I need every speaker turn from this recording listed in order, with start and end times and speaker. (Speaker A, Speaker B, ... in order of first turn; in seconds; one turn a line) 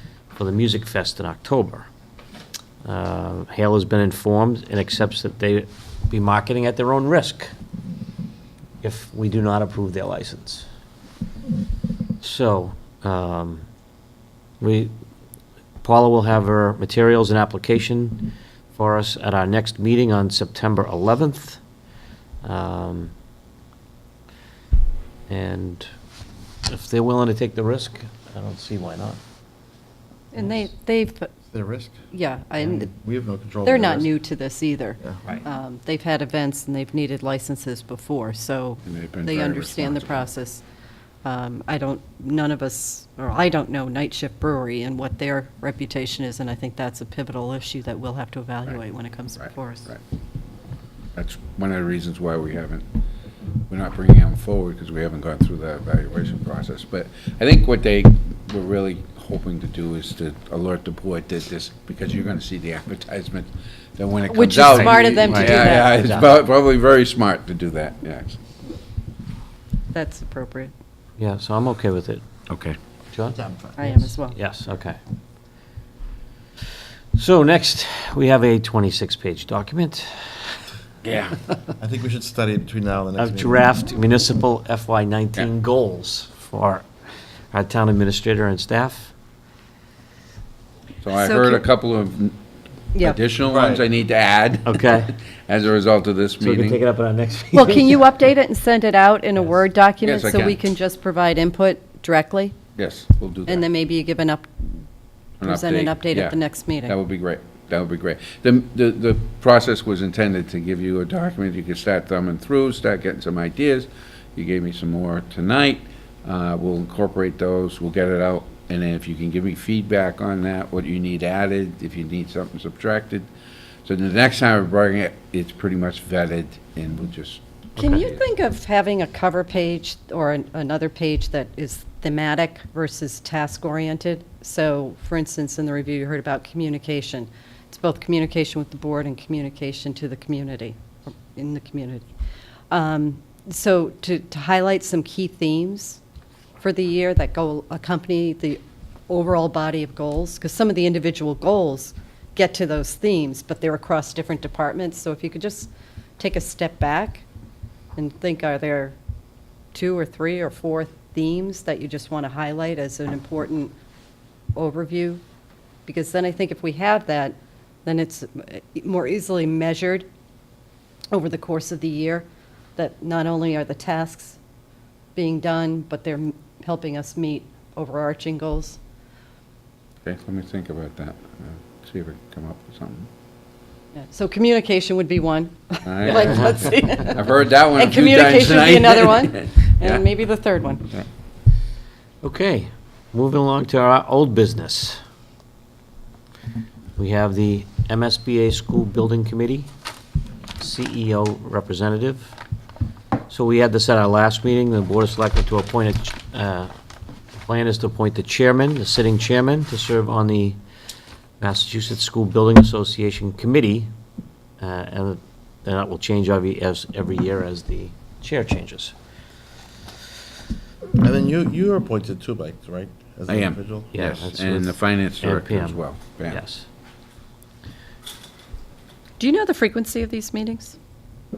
Speaker A: 0.3-1.9
Speaker A: 2.8-7.5
Speaker A: 8.8-10.7
Speaker A: 12.2-13.7
Speaker A: 14.6-14.9
Speaker A: 15.8-21.6
Speaker A: 22.4-23.1
Speaker A: 25.3-25.9
Speaker A: 26.7-29.2
Speaker B: 30.3-31.3
Speaker C: 31.5-32.0
Speaker B: 32.1-32.9
Speaker C: 32.6-34.1
Speaker B: 33.6-40.6
Speaker D: 38.9-40.3
Speaker B: 41.2-49.9
Speaker D: 49.4-50.0
Speaker D: 51.2-52.9
Speaker D: 53.7-68.4
Speaker B: 64.3-66.1
Speaker A: 64.7-66.4
Speaker B: 69.9-70.7
Speaker A: 71.2-72.3
Speaker D: 72.5-72.8
Speaker A: 73.1-75.0
Speaker C: 73.4-73.8
Speaker B: 73.8-74.4
Speaker A: 77.2-80.4
Speaker D: 81.0-81.4
Speaker C: 81.8-83.6
Speaker A: 83.2-86.9
Speaker A: 87.5-89.1
Speaker D: 91.0-92.4
Speaker B: 91.1-91.6
Speaker D: 93.0-96.8
Speaker C: 93.5-93.8
Speaker A: 94.7-95.1
Speaker A: 96.4-98.0
Speaker B: 97.5-102.6
Speaker D: 100.0-100.6
Speaker D: 102.8-103.7
Speaker B: 103.5-104.8
Speaker D: 105.4-123.3
Speaker B: 105.4-107.0
Speaker D: 123.8-128.2
Speaker B: 127.8-142.1
Speaker B: 142.7-146.0
Speaker B: 146.6-157.2
Speaker B: 157.9-159.0
Speaker B: 159.7-163.7
Speaker B: 164.6-165.2
Speaker B: 165.9-170.1
Speaker B: 171.1-172.3
Speaker B: 172.8-174.4
Speaker B: 175.2-178.8
Speaker D: 180.0-183.1
Speaker B: 184.0-190.9
Speaker D: 185.8-190.1
Speaker A: 186.0-186.8
Speaker A: 192.2-195.0
Speaker A: 197.0-199.7
Speaker A: 200.6-202.3
Speaker A: 203.3-206.7
Speaker A: 207.3-210.6
Speaker A: 211.4-213.9
Speaker A: 214.6-218.9
Speaker C: 221.0-223.9
Speaker D: 223.3-226.4
Speaker A: 223.9-226.7
Speaker B: 229.2-230.8